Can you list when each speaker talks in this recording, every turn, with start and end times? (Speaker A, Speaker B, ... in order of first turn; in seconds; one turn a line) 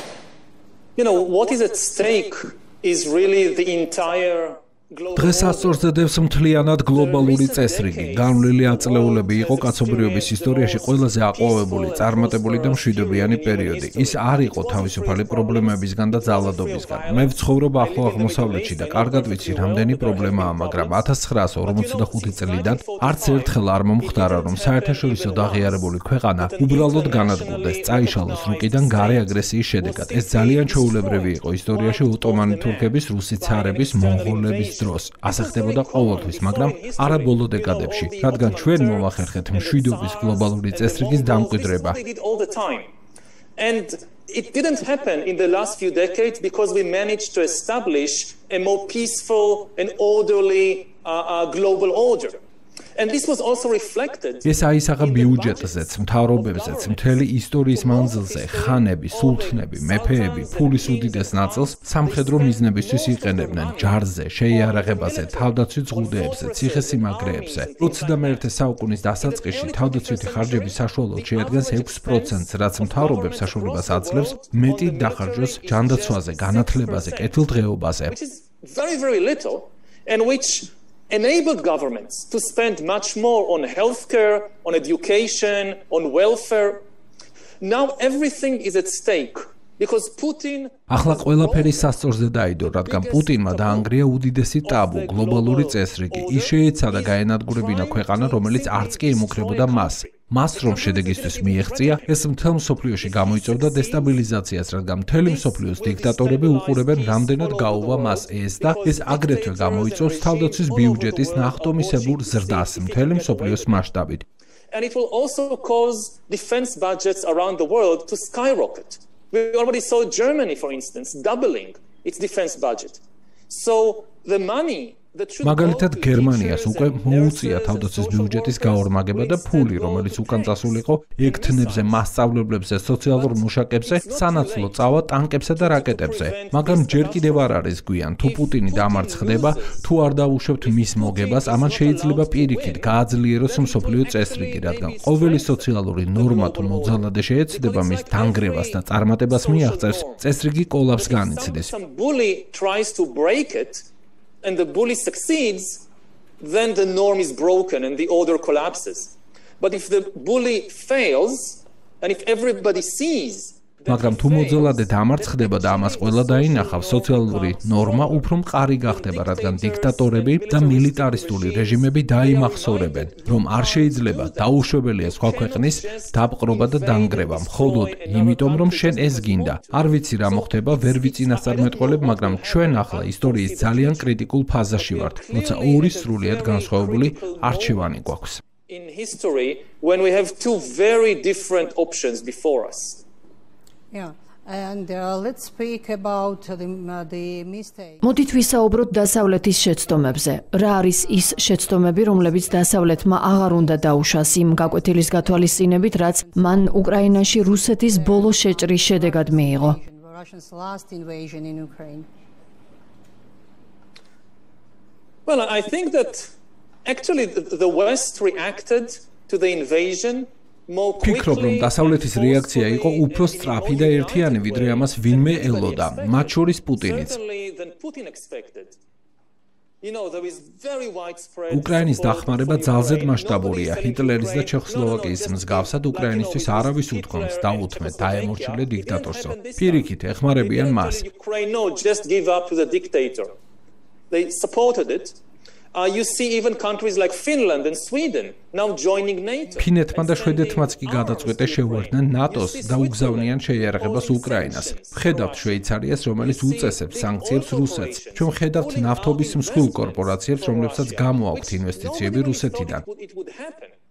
Speaker A: 0.9-5.8
Speaker B: 5.1-42.0
Speaker A: 6.9-21.1
Speaker A: 21.6-42.9
Speaker A: 43.6-52.4
Speaker A: 53.0-68.5
Speaker B: 54.4-78.2
Speaker A: 69.2-77.4
Speaker A: 78.1-86.8
Speaker A: 87.6-91.9
Speaker B: 90.9-114.2
Speaker A: 92.7-93.9
Speaker A: 94.6-102.2
Speaker A: 103.0-104.2
Speaker A: 105.2-113.8
Speaker A: 114.7-132.0
Speaker B: 125.4-151.7
Speaker A: 133.1-134.9
Speaker A: 135.5-137.6
Speaker A: 138.2-139.8
Speaker A: 140.6-150.2
Speaker A: 151.0-153.8
Speaker A: 154.4-155.8
Speaker A: 156.4-168.3
Speaker B: 163.9-188.4
Speaker A: 168.8-184.1
Speaker A: 184.7-187.9
Speaker A: 188.7-193.0
Speaker C: 193.9-198.7
Speaker D: 198.0-209.8
Speaker C: 201.0-212.1
Speaker A: 215.3-216.3
Speaker A: 216.8-228.8
Speaker B: 221.0-227.2
Speaker A: 229.8-243.3
Speaker B: 231.5-241.0
Speaker A: 244.1-245.2
Speaker A: 245.7-255.6
Speaker B: 249.6-262.8
Speaker A: 256.2-263.7